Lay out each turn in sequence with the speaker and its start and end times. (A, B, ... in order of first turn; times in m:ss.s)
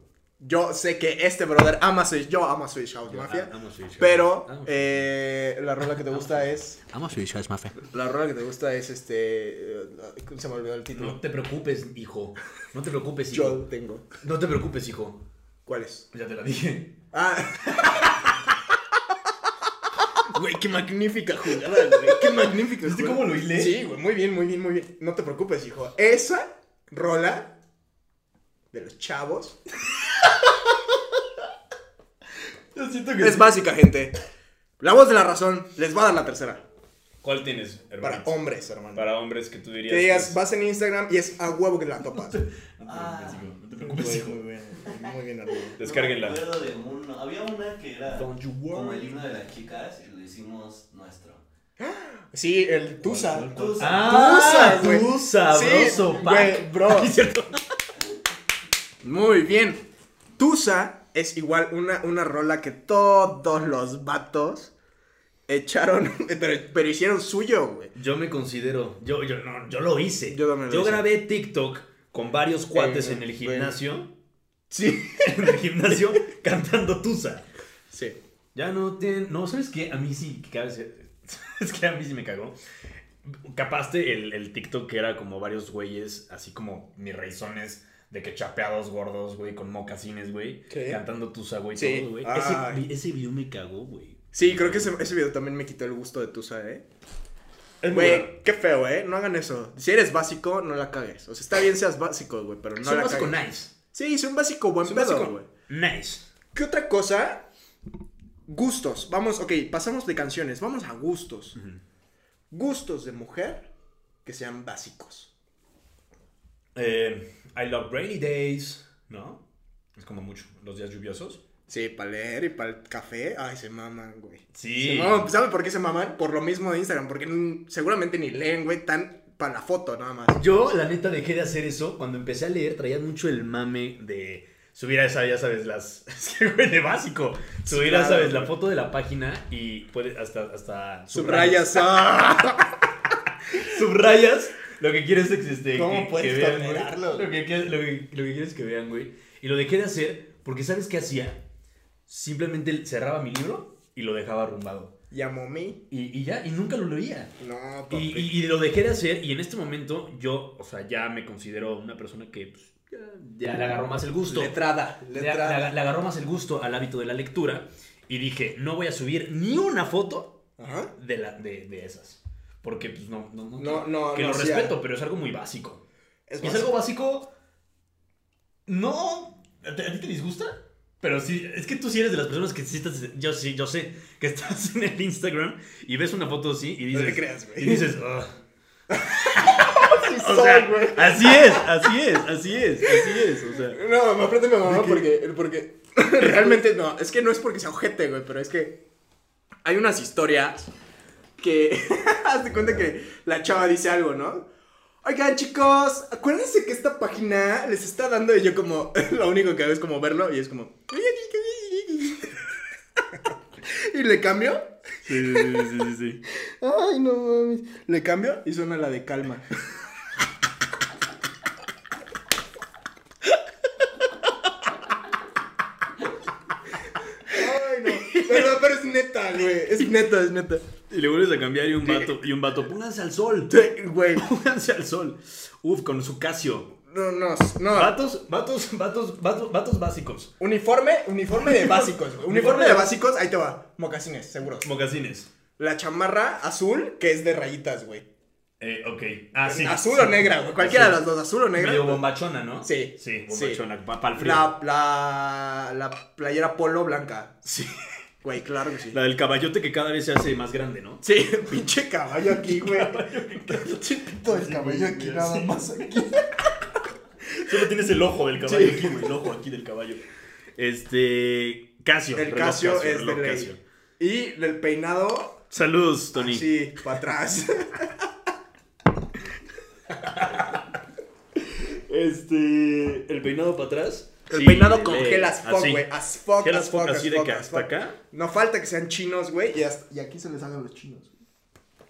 0:00.4-0:06.8 A
0:03.1-0:05.1 B
0:06.1-0:07.8 B
0:07.8-0:11.2 A
0:10.9-0:13.6 B
0:13.3-0:14.1 A
0:14.2-0:15.2 B
0:15.7-0:16.1 A
0:16.1-0:17.0 B
0:17.1-0:18.2 A
0:20.2-0:27.5 A
0:22.1-0:23.8 B
0:28.7-0:29.6 A
0:30.0-0:31.0 B
0:32.7-0:33.6 B
0:33.2-0:34.2 A
0:34.8-0:36.6 A
0:37.2-0:38.4 B
0:38.0-0:39.1 A
0:39.0-0:40.4 B
0:39.9-0:42.4 A
0:42.1-0:44.4 B
0:42.9-0:43.4 C
0:43.8-0:45.8 A
0:45.7-0:51.4 C
0:45.8-0:46.4 B
0:48.2-0:49.1 B
0:51.8-0:57.1 A
0:53.0-0:57.6 B
0:53.3-0:54.2 C
0:59.0-0:59.8 A
1:00.4-1:04.7 A
1:05.5-1:07.9 A
1:08.0-1:14.1 B
1:10.3-1:11.1 A
1:12.7-1:13.8 A
1:14.7-1:17.5 B
1:17.9-1:18.2 A
1:18.6-1:22.6 B
1:23.3-1:34.9 B
1:30.7-1:31.0 A
1:31.8-1:32.8 A
1:34.3-1:36.8 A
1:37.8-1:38.4 B
1:37.9-1:43.4 A
1:42.8-1:43.7 B
1:43.9-1:45.5 A
1:44.8-1:46.3 B
1:46.6-1:47.4 A
1:48.5-1:51.6 A
1:51.6-1:51.8 B
1:52.5-1:53.7 A
1:54.2-1:55.3 A
1:56.8-1:59.4 B
2:00.0-2:01.4 B
2:01.7-2:10.4 A
2:04.5-2:05.3 B
2:10.3-2:21.8 B
2:17.7-2:18.5 A
2:21.1-2:22.8 A
2:23.5-2:31.4 B
2:25.7-2:27.3 A
2:32.1-2:34.9 B
2:35.1-2:35.8 A
2:35.9-2:37.3 B
2:37.4-2:38.3 A
2:37.9-2:44.6 B
2:44.3-2:45.7 A
2:45.1-2:50.4 B
2:50.6-2:50.9 A
2:51.0-2:55.8 B
2:53.6-2:54.8 A
2:56.3-2:56.8 A
2:56.4-2:57.3 B
2:58.7-3:08.4 B
3:06.9-3:07.9 A
3:08.9-3:11.9 A
3:09.2-3:13.8 B
3:12.8-3:18.8 A
3:14.6-3:15.0 B
3:16.2-3:16.5 B
3:19.6-3:20.7 A
3:21.4-3:24.5 A
3:25.0-3:32.5 A
3:33.2-3:35.6 A
3:35.0-3:36.2 B
3:36.3-3:39.5 A
3:47.3-3:50.7 A
3:48.0-3:48.4 B
3:50.9-3:53.6 B
3:51.8-3:52.1 A
3:53.5-3:54.3 A
3:54.2-3:56.7 B
3:56.8-3:58.0 A
3:57.7-4:00.3 B
4:00.4-4:04.7 A
4:01.4-4:02.9 B
4:04.6-4:05.3 B
4:05.6-4:08.0 A
4:08.6-4:11.0 B
4:09.4-4:12.0 A
4:11.6-4:14.5 B
4:12.6-4:13.6 A
4:14.2-4:17.4 A
4:17.4-4:17.7 B
4:18.2-4:19.0 A
4:18.9-4:21.0 B
4:21.0-4:26.5 A
4:22.4-4:25.8 B
4:27.3-4:30.0 B
4:28.4-4:29.1 A
4:30.6-4:33.6 B
4:32.2-4:35.4 A
4:35.5-4:36.5 B
4:36.2-4:38.1 A
4:39.9-4:40.7 B
4:41.4-4:48.0 B
4:44.3-4:51.1 A